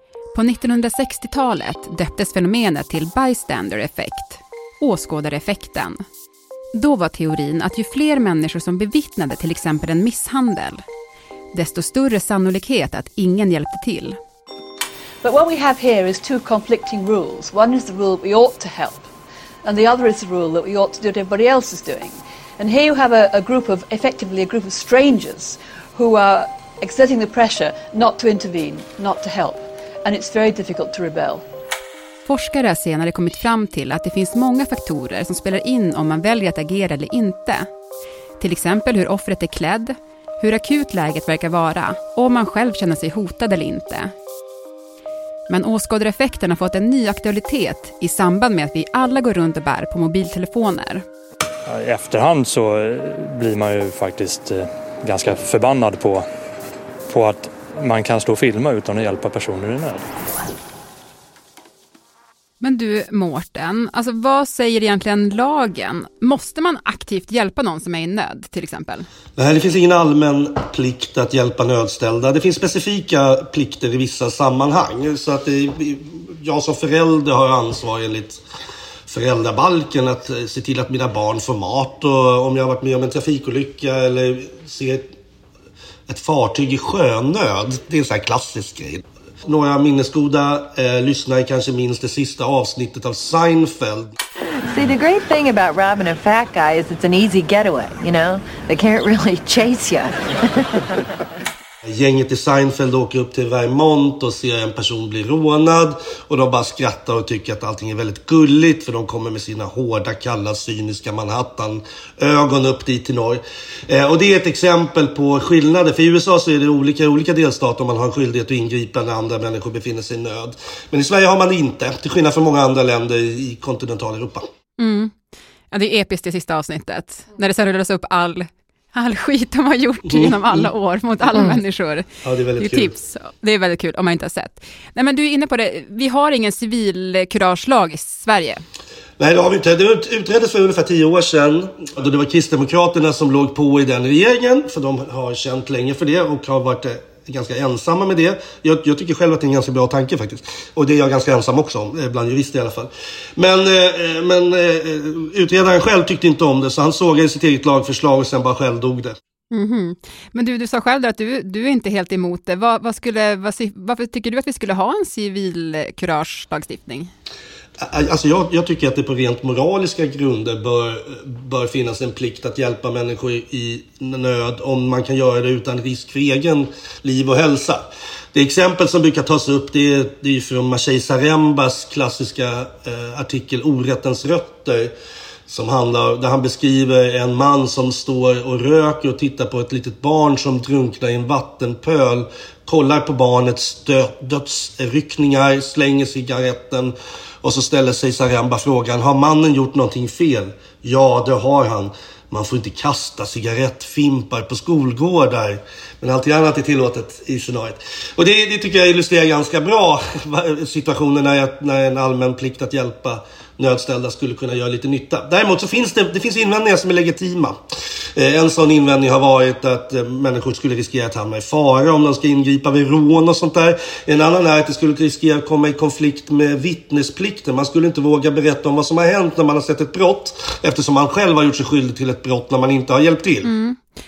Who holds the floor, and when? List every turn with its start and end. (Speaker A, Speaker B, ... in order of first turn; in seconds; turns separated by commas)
Speaker A: 0.3-6.0, Speaker A: 6.7-10.8, Speaker A: 11.5-14.2, Speaker B: 15.2-19.1, Speaker B: 19.6-31.4, Speaker A: 32.2-37.7, Speaker A: 38.4-44.1, Speaker A: 45.5-51.0, Speaker C: 51.7-56.2, Speaker C: 57.1-60.0, Speaker A: 62.6-69.1, Speaker D: 69.3-78.4, Speaker D: 79.1-85.1, Speaker D: 86.1-94.1, Speaker E: 94.7-100.7, Speaker D: 101.9-124.4, Speaker A: 124.8-125.1, Speaker A: 125.7-138.6, Speaker D: 130.1-130.4, Speaker D: 132.2-132.9, Speaker D: 139.2-159.1, Speaker A: 159.5-167.1, Speaker D: 167.8-184.9, Speaker D: 185.5-217.6, Speaker D: 218.2-233.5, Speaker A: 233.4-233.8